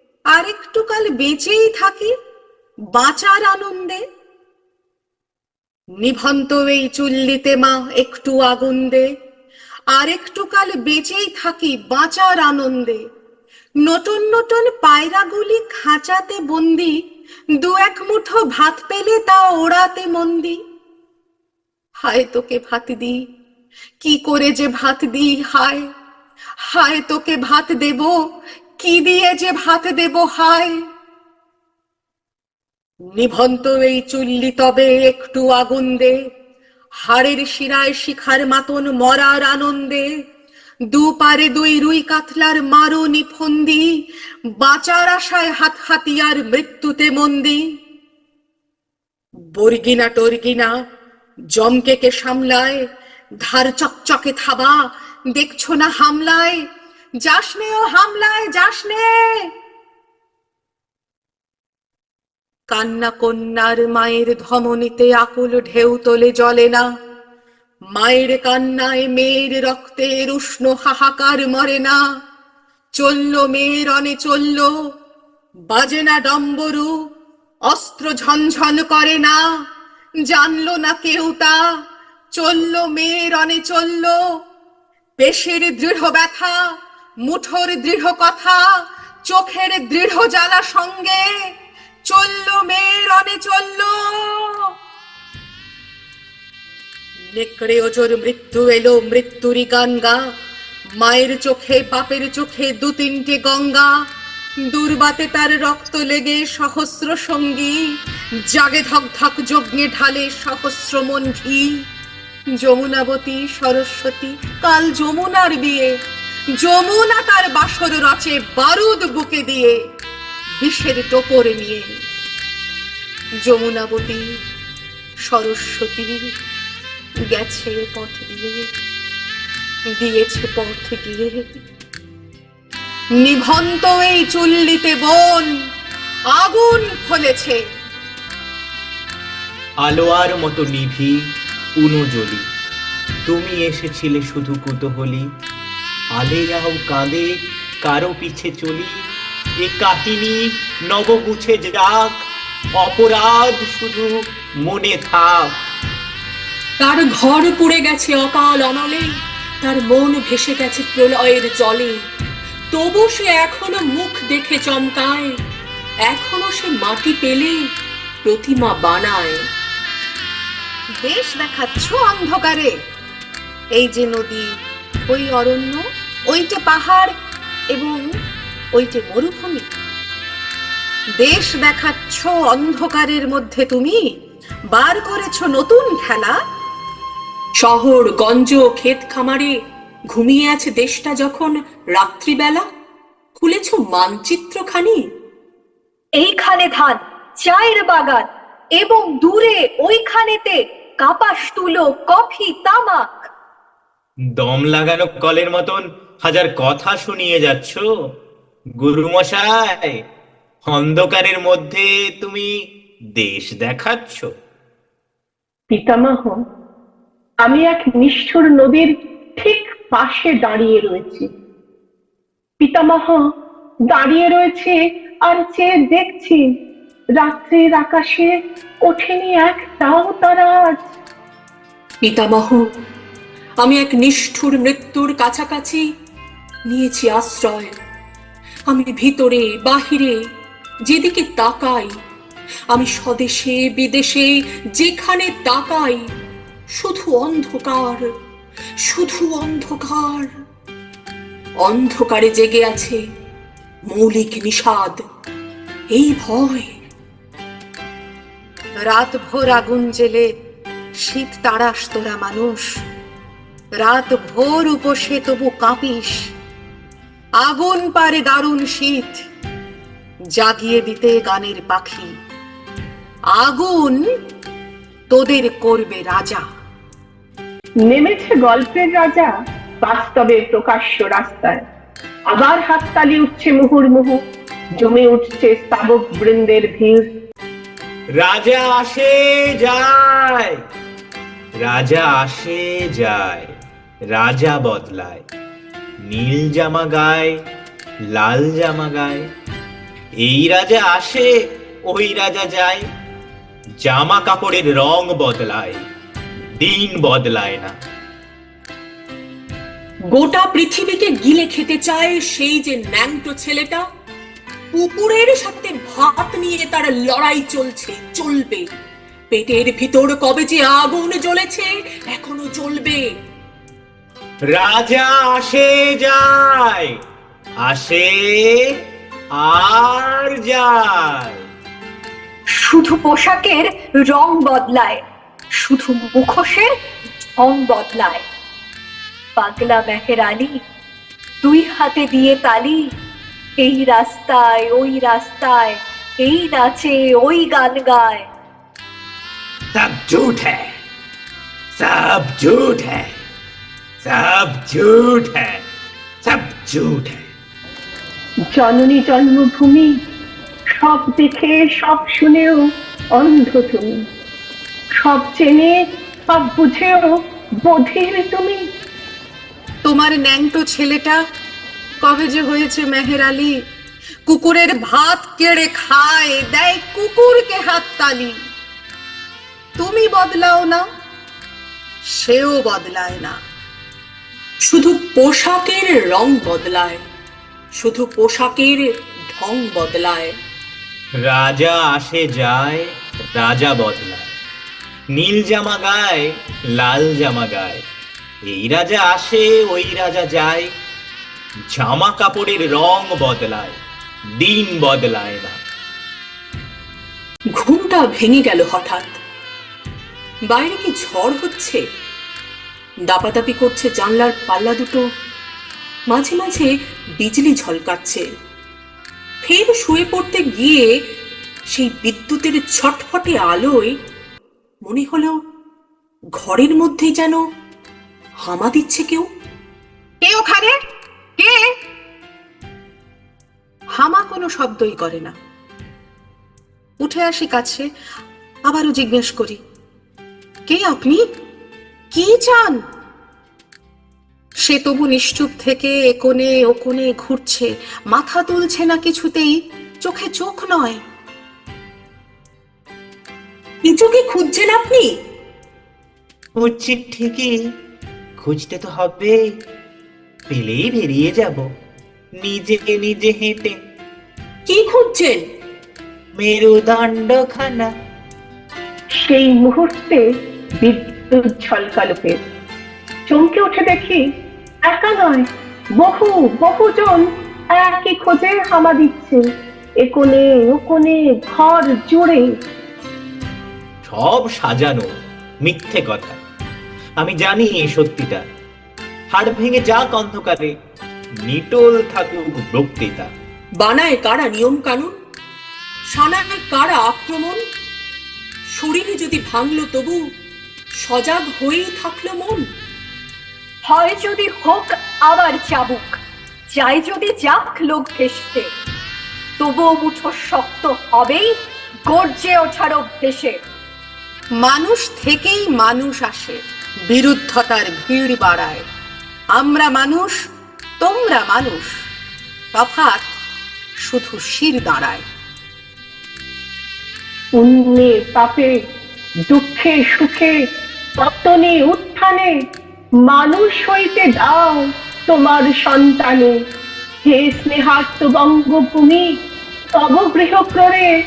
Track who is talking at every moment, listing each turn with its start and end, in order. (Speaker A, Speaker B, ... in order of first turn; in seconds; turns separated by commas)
Speaker A: 0.3-2.1, Speaker A: 3.0-4.0, Speaker A: 6.0-9.1, Speaker A: 9.9-13.0, Speaker A: 13.9-16.9, Speaker A: 17.6-20.6, Speaker A: 22.0-23.2, Speaker A: 24.0-25.8, Speaker A: 26.7-28.1, Speaker A: 28.8-30.8, Speaker A: 33.1-36.2, Speaker A: 37.0-40.1, Speaker A: 40.9-43.9, Speaker A: 44.6-47.6, Speaker A: 49.5-50.7, Speaker A: 51.5-52.8, Speaker A: 53.5-54.8, Speaker A: 55.4-56.6, Speaker A: 57.2-59.1, Speaker A: 62.7-66.8, Speaker A: 68.0-72.0, Speaker A: 73.0-74.7, Speaker A: 75.7-76.9, Speaker A: 77.7-79.4, Speaker A: 80.3-81.5, Speaker A: 82.4-84.2, Speaker A: 85.2-86.6, Speaker A: 87.3-88.7, Speaker A: 89.3-91.2, Speaker A: 92.1-94.6, Speaker A: 97.3-100.2, Speaker A: 101.0-103.9, Speaker A: 104.7-107.8, Speaker A: 108.5-111.7, Speaker A: 112.6-115.9, Speaker A: 116.6-119.8, Speaker A: 120.6-121.9, Speaker A: 123.5-124.2, Speaker A: 125.3-126.3, Speaker A: 127.3-128.7, Speaker A: 129.9-131.4, Speaker A: 133.2-135.5, Speaker A: 136.3-137.6, Speaker B: 139.8-141.1, Speaker B: 141.8-142.4, Speaker B: 143.3-145.2, Speaker B: 146.2-147.3, Speaker B: 147.8-148.9, Speaker B: 149.6-150.4, Speaker B: 150.9-152.2, Speaker B: 152.8-155.5, Speaker C: 156.8-159.1, Speaker C: 159.6-162.0, Speaker C: 162.7-165.3, Speaker C: 166.1-167.6, Speaker C: 168.2-169.4, Speaker A: 171.0-172.7, Speaker A: 173.8-174.5, Speaker A: 175.1-177.1, Speaker A: 177.7-178.0, Speaker A: 178.8-179.7, Speaker A: 181.2-184.0, Speaker A: 184.7-186.3, Speaker C: 187.6-189.5, Speaker C: 190.1-192.6, Speaker C: 193.4-195.0, Speaker D: 196.2-203.3, Speaker B: 204.3-207.8, Speaker B: 208.8-209.9, Speaker B: 210.7-212.5, Speaker B: 213.2-214.3, Speaker E: 215.7-216.3, Speaker E: 217.4-221.3, Speaker E: 222.6-223.2, Speaker E: 223.9-224.8, Speaker E: 225.3-226.4, Speaker E: 227.2-228.3, Speaker E: 228.8-230.8, Speaker C: 232.0-232.6, Speaker C: 233.6-235.8, Speaker C: 236.7-237.7, Speaker C: 238.7-240.2, Speaker C: 240.9-241.9, Speaker C: 242.7-246.0, Speaker C: 246.7-248.0, Speaker C: 248.8-250.3, Speaker C: 251.6-253.0, Speaker C: 253.9-255.0, Speaker C: 255.9-256.7, Speaker A: 258.8-260.2, Speaker A: 261.0-262.6, Speaker A: 263.8-266.2, Speaker A: 267.4-269.2, Speaker A: 270.4-272.1, Speaker A: 273.4-274.0, Speaker A: 275.1-276.4, Speaker E: 277.8-281.6, Speaker E: 282.3-284.2, Speaker E: 284.8-287.1, Speaker B: 288.1-290.5, Speaker B: 291.6-293.5, Speaker B: 294.1-295.2, Speaker B: 296.0-297.4, Speaker B: 298.1-299.2, Speaker B: 300.2-301.3, Speaker B: 301.9-302.8, Speaker B: 303.8-305.8, Speaker B: 306.6-307.7, Speaker C: 310.1-313.8, Speaker C: 314.7-318.6, Speaker C: 319.3-323.1, Speaker B: 324.5-326.9, Speaker B: 327.7-328.6, Speaker B: 329.4-331.4, Speaker D: 332.6-335.0, Speaker D: 335.6-336.7, Speaker D: 337.4-338.2, Speaker D: 339.4-340.6, Speaker D: 341.4-342.9, Speaker D: 343.6-348.3, Speaker B: 349.7-350.7, Speaker B: 351.8-353.2, Speaker B: 354.0-355.6, Speaker B: 356.2-357.2, Speaker E: 358.5-359.9, Speaker E: 360.8-362.6, Speaker E: 363.1-364.0, Speaker E: 365.0-365.8, Speaker E: 366.3-367.1, Speaker E: 367.6-368.6, Speaker A: 369.8-371.2, Speaker A: 372.0-373.5, Speaker A: 374.3-378.3, Speaker A: 379.8-380.8, Speaker A: 382.2-383.4, Speaker C: 384.6-387.0, Speaker C: 387.8-390.3, Speaker B: 391.2-394.3, Speaker B: 395.1-397.8, Speaker B: 398.5-400.7, Speaker B: 401.7-403.8, Speaker B: 404.4-405.6, Speaker C: 407.6-409.2, Speaker C: 410.5-411.8, Speaker C: 413.1-415.0, Speaker C: 416.1-418.2, Speaker C: 419.4-420.9, Speaker C: 421.7-424.0, Speaker C: 424.9-425.3, Speaker C: 426.4-427.4, Speaker C: 428.4-429.3, Speaker A: 430.2-430.8, Speaker A: 434.0-435.3, Speaker A: 437.0-437.9, Speaker A: 438.7-439.6, Speaker A: 440.7-441.2, Speaker A: 442.1-442.8, Speaker A: 444.7-451.0, Speaker C: 453.9-455.1, Speaker B: 456.6-457.5, Speaker B: 458.4-459.3, Speaker B: 460.5-461.6, Speaker B: 462.4-463.8, Speaker C: 464.7-465.4, Speaker B: 466.4-467.9, Speaker E: 469.2-470.2, Speaker E: 470.8-472.4, Speaker E: 473.3-474.2, Speaker E: 474.9-475.5, Speaker E: 476.0-479.4, Speaker E: 480.0-482.5, Speaker B: 484.1-485.1, Speaker B: 485.6-486.4, Speaker B: 487.2-488.4, Speaker B: 489.3-490.7, Speaker B: 491.4-493.3, Speaker C: 493.8-495.1, Speaker C: 496.1-497.6, Speaker C: 498.7-500.2, Speaker C: 501.0-502.6, Speaker D: 503.9-506.2, Speaker D: 506.7-508.7, Speaker D: 509.6-511.5, Speaker D: 512.1-513.6, Speaker A: 514.6-518.8, Speaker A: 519.5-520.4, Speaker A: 521.0-521.9, Speaker A: 522.7-523.3, Speaker A: 524.1-525.2, Speaker E: 527.6-528.7, Speaker E: 529.5-530.5, Speaker E: 531.2-532.5, Speaker E: 533.2-536.5, Speaker E: 537.3-539.2, Speaker E: 539.9-541.1